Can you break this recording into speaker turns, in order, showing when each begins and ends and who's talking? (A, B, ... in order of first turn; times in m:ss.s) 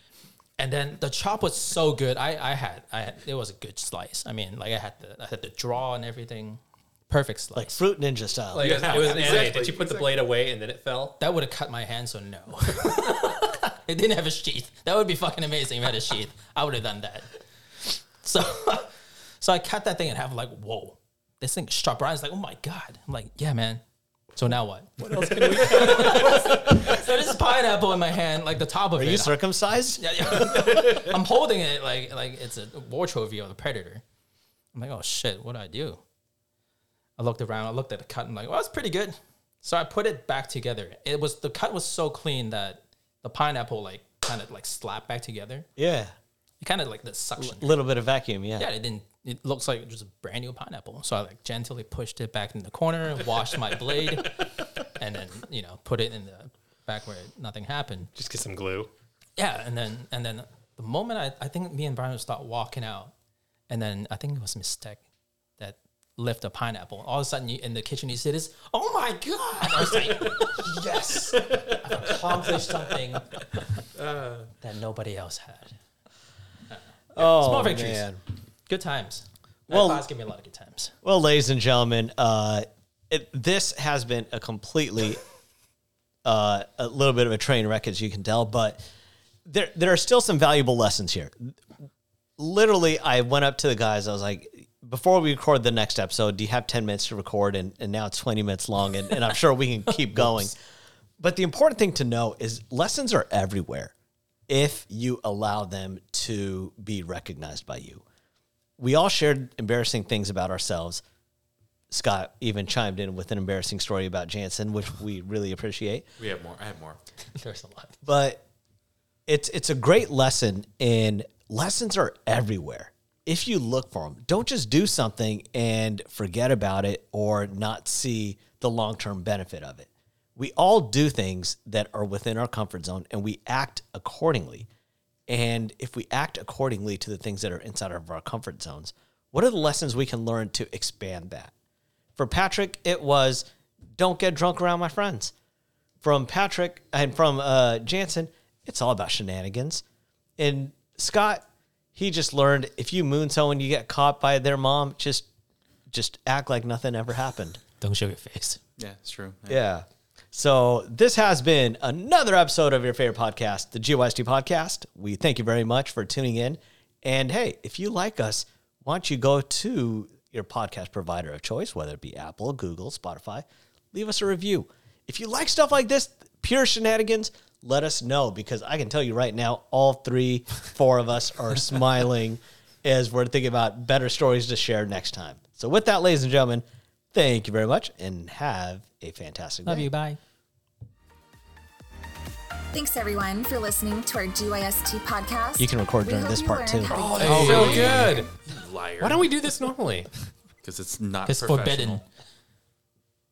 0:00.6-0:07.8 A
0:07.5-0:09.0 B
0:08.5-0:11.2 C
0:08.6-0:10.3 D
0:11.2-0:23.8 A
0:24.3-0:29.4 A
0:25.0-0:26.9 C
0:25.2-0:26.9 D
0:29.0-0:30.0 B
0:30.0-0:34.0 A
0:30.3-0:31.1 D
0:34.7-0:36.0 A
0:37.2-0:45.7 A
0:45.8-0:46.1 B
0:46.6-0:47.8 A
0:47.4-0:48.7 B
0:48.6-0:58.1 A
0:58.1-0:58.9 C
0:59.4-1:03.1 A
1:03.7-1:05.0 A
1:05.6-1:13.4 A
1:11.3-1:12.2 D
1:13.9-1:14.5 D
1:14.6-1:15.7 A
1:16.7-1:18.1 A
1:17.1-1:18.2 B
1:18.7-1:20.9 A
1:19.7-1:20.0 B
1:21.0-1:25.2 B
1:26.2-1:28.8 B
1:29.4-1:31.6 B
1:32.4-1:40.6 B
1:40.1-1:40.5 A
1:41.2-1:43.9 B
1:44.5-1:48.0 B
1:48.8-1:51.0 B
1:51.9-1:56.0 B
1:56.2-1:57.0 D
1:57.3-1:58.0 A
1:58.0-1:58.4 B
1:59.3-2:14.7 B
2:15.3-2:21.5 B
2:22.2-2:25.3 B
2:26.0-2:29.8 B
2:30.4-2:35.2 B
2:35.9-2:37.6 B
2:37.8-2:38.6 A
2:38.8-2:39.6 D
2:39.5-3:09.9 B
3:09.6-3:10.2 A
3:12.7-3:17.4 E
3:15.6-3:17.0 B
3:16.9-3:18.3 C
3:17.2-3:19.2 D
3:17.2-3:18.2 A
3:19.0-3:20.1 C
3:20.6-3:22.0 D
3:21.2-3:22.0 A